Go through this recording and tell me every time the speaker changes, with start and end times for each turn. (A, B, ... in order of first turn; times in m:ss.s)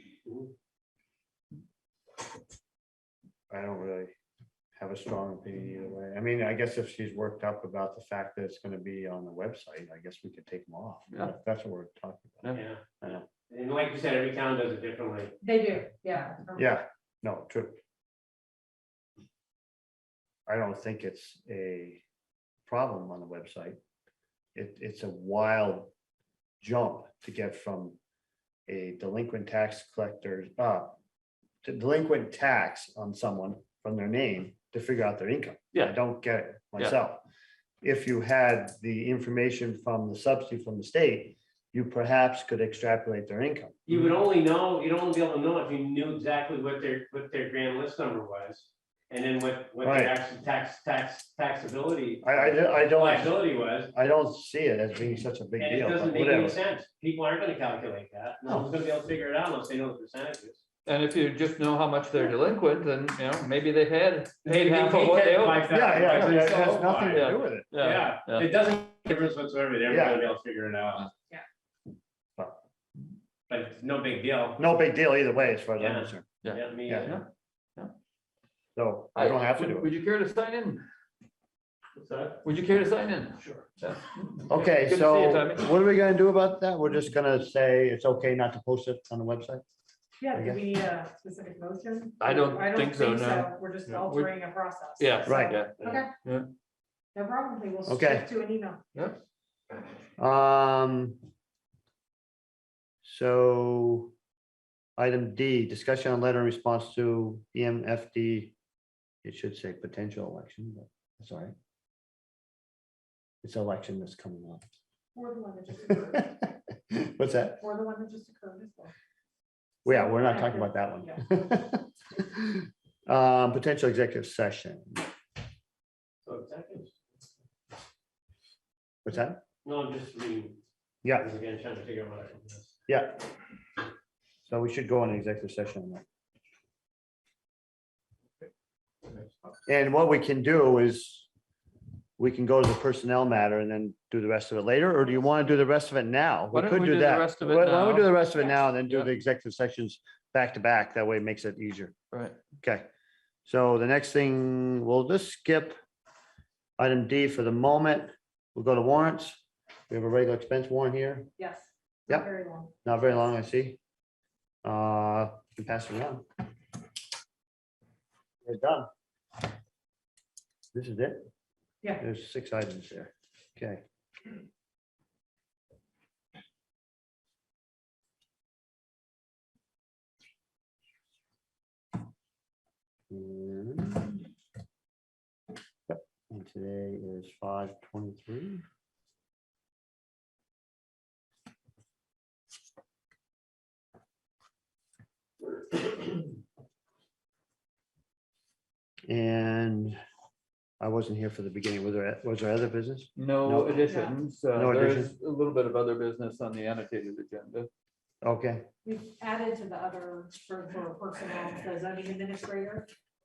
0:00.2-0:00.5 A
0:03.5-0:04.1 B
0:04.8-0:13.3 B
0:12.5-0:12.8 A
0:13.5-0:15.3 A
0:15.4-0:16.7 C
0:16.6-0:17.8 B
0:20.5-0:22.0 B
0:22.7-0:23.8 B
0:24.6-0:25.9 B
0:26.6-0:28.0 B
0:28.7-0:31.0 B
0:31.6-0:37.2 B
0:37.8-0:43.8 B
0:43.9-0:53.9 A
0:49.8-0:50.1 B
0:52.2-0:56.6 B
0:55.6-1:00.6 A
1:00.9-1:08.5 D
1:04.4-1:11.1 A
1:05.6-1:07.7 B
1:09.9-1:10.2 B
1:13.5-1:14.6 A
1:14.6-1:16.3 B
1:15.8-1:17.2 A
1:16.4-1:17.9 D
1:16.8-1:17.1 B
1:18.8-1:19.9 B
1:19.2-1:20.8 D
1:22.4-1:25.7 D
1:24.5-1:29.6 B
1:30.2-1:36.1 C
1:30.3-1:30.6 B
1:32.2-1:34.3 D
1:35.0-1:36.5 D
1:35.2-1:36.0 B
1:37.1-1:38.8 C
1:37.9-1:38.3 B
1:39.0-1:39.2 D
1:40.2-1:41.2 B
1:43.0-1:44.1 B
1:45.0-1:48.6 B
1:49.2-1:51.5 B
1:53.4-1:54.6 B
1:55.1-1:56.3 C
1:56.9-1:57.6 B
1:57.6-1:58.9 C
1:59.8-2:05.0 B
1:59.9-2:01.2 C
2:06.2-2:06.9 A
2:09.0-2:09.4 B
2:09.6-2:10.6 A
2:11.2-2:12.7 A
2:12.9-2:13.2 B
2:14.5-2:16.0 B
2:19.7-2:21.3 B
2:22.2-2:31.9 B
2:26.5-2:28.1 D
2:32.1-2:32.4 D
2:32.6-2:32.9 B
2:33.4-2:35.8 B
2:36.8-2:41.3 B
2:41.4-2:42.7 C
2:42.8-2:43.8 B
2:44.6-2:46.2 B
2:48.4-2:48.9 B
2:50.7-2:51.2 B
2:52.0-2:53.8 B
3:03.1-3:04.3 B
3:05.9-3:08.6 B
3:19.1-3:20.0 B
3:20.8-3:23.9 B
3:23.2-3:27.7 D
3:23.9-3:24.2 C
3:24.5-3:25.1 B
3:28.2-3:28.7 B
3:28.8-3:32.9 C